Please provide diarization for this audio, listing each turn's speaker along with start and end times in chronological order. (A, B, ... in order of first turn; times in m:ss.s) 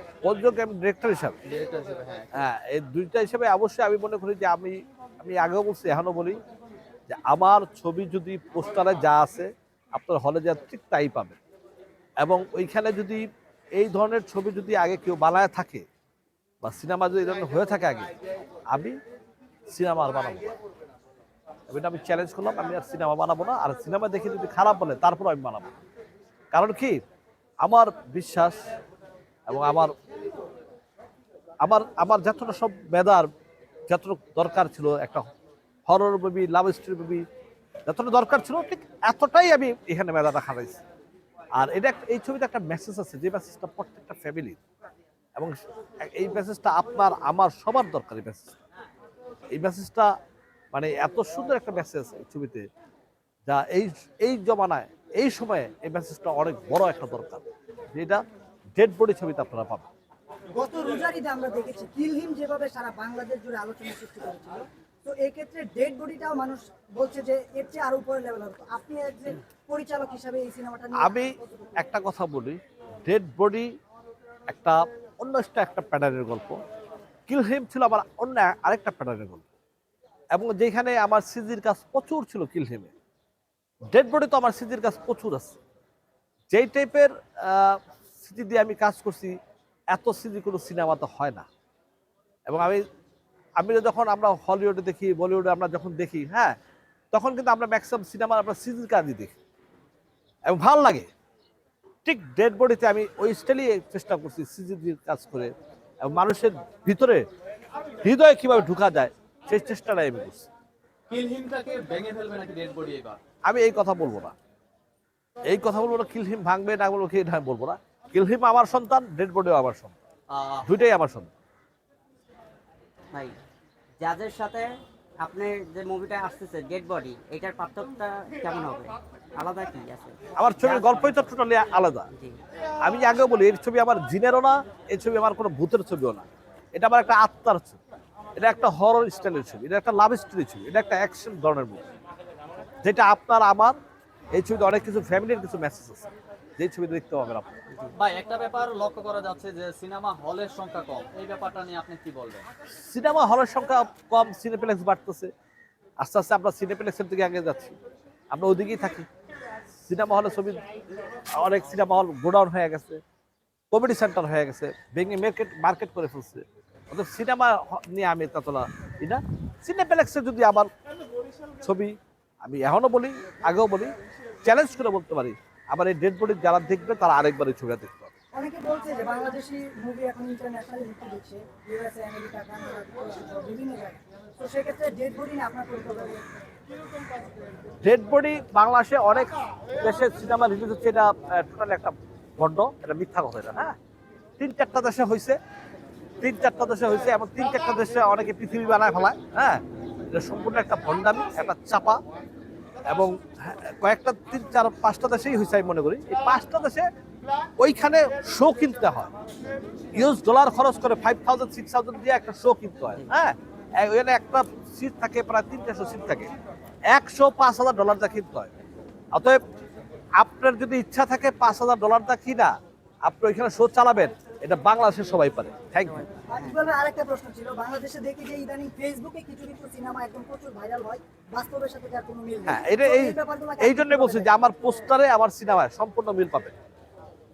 0:00.2-0:01.4 A
0:01.4-0:02.3 B
0:02.4-0:06.4 A
0:07.1-0:11.4 A
0:12.2-0:13.2 A
0:13.8-0:15.8 A
0:16.6-0:18.1 A
0:18.7-0:19.0 A
0:19.7-0:20.6 A
0:21.7-0:25.7 A
0:26.5-0:27.0 A
0:27.6-0:28.6 A
0:29.5-0:29.9 A
0:31.6-0:33.3 A
0:33.9-0:35.2 A
0:35.9-0:37.2 A
0:37.9-0:40.8 A
0:41.6-0:44.6 A
0:45.4-0:48.6 A
0:49.5-0:50.1 A
0:50.7-0:52.7 A
0:53.5-0:58.2 A
0:58.8-0:59.9 A
1:00.5-1:11.5 C
1:11.0-1:13.7 A
1:14.5-1:16.6 A
1:17.3-1:19.4 A
1:20.3-1:22.9 A
1:23.9-1:25.6 A
1:26.5-1:29.4 A
1:29.9-1:31.5 A
1:32.5-1:32.8 A
1:33.6-1:36.6 A
1:37.1-1:39.4 A
1:40.5-1:41.1 A
1:42.0-1:47.2 A
1:48.0-1:50.5 A
1:51.1-1:53.2 B
1:53.4-1:54.4 A
1:55.5-2:00.0 A
2:00.3-2:00.7 B
2:00.6-2:01.3 A
2:03.1-2:03.4 D
2:04.0-2:11.3 D
2:10.4-2:12.1 A
2:12.1-2:12.4 D
2:12.8-2:17.8 A
2:18.4-2:21.9 A
2:22.8-2:23.8 A
2:24.3-2:26.1 A
2:26.6-2:27.5 A
2:28.0-2:32.5 B
2:32.8-2:35.3 A
2:36.0-2:37.8 A
2:38.3-2:39.1 A
2:39.9-2:40.6 A
2:41.4-2:43.0 A
2:43.7-2:50.7 A
2:51.6-2:53.9 A
2:54.4-2:58.1 A
2:58.3-3:06.2 C
3:07.8-3:13.8 A
3:14.4-3:15.4 A
3:16.2-3:19.6 A
3:20.1-3:22.0 A
3:22.8-3:26.9 A
3:27.6-3:29.1 A
3:29.9-3:36.3 A
3:36.9-3:38.5 A
3:39.1-3:39.4 A
3:40.2-3:42.5 A
3:43.0-3:46.0 A
3:45.8-3:46.7 D
3:46.3-3:54.3 C
3:52.5-3:56.6 A